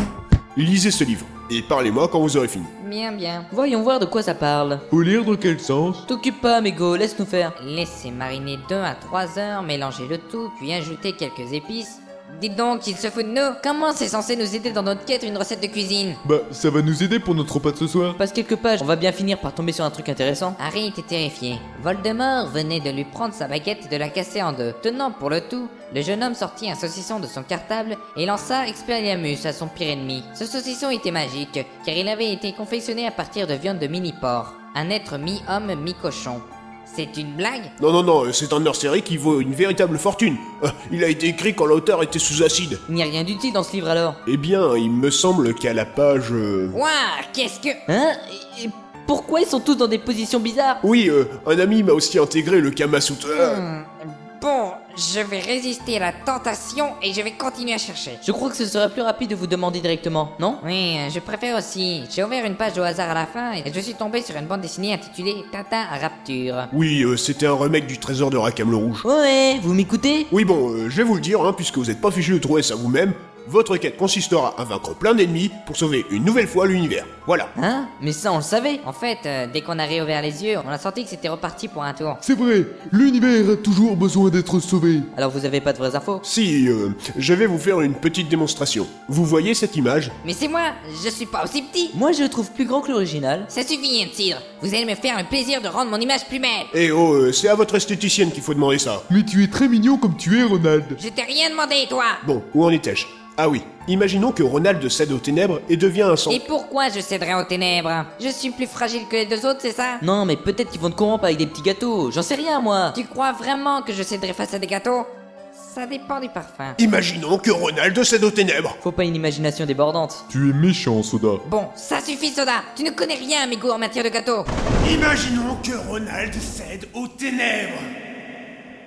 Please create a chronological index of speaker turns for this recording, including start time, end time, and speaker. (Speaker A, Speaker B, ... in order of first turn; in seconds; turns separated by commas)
Speaker A: 0.5-2.7, Speaker B: 2.8-3.5, Speaker C: 3.5-4.8, Speaker D: 4.9-6.0, Speaker C: 6.1-7.5, Speaker B: 7.6-16.2, Speaker D: 16.2-18.2, Speaker C: 18.2-20.6, Speaker B: 20.6-37.7, Speaker A: 37.8-42.8, Speaker C: 42.9-44.2, Speaker A: 44.2-46.8, Speaker B: 46.7-47.8, Speaker C: 47.9-50.8, Speaker A: 50.8-53.6, Speaker B: 53.3-58.2, Speaker C: 58.2-60.6, Speaker B: 60.6-66.7, Speaker A: 66.7-69.0, Speaker C: 69.0-70.3, Speaker A: 70.3-77.5, Speaker C: 77.5-78.8, Speaker B: 78.8-82.2, Speaker D: 82.2-85.1, Speaker C: 85.1-86.2, Speaker A: 86.2-90.1, Speaker B: 90.2-91.9, Speaker C: 91.9-93.5, Speaker B: 93.5-96.7, Speaker A: 96.7-99.0, Speaker D: 99.1-101.0, Speaker B: 101.0-102.2, Speaker A: 102.2-106.4, Speaker B: 106.3-110.0, Speaker C: 110.0-113.0, Speaker B: 112.9-116.8, Speaker A: 116.8-118.8, Speaker C: 118.8-120.2, Speaker D: 120.3-121.4, Speaker B: 121.4-124.5, Speaker A: 124.8-127.8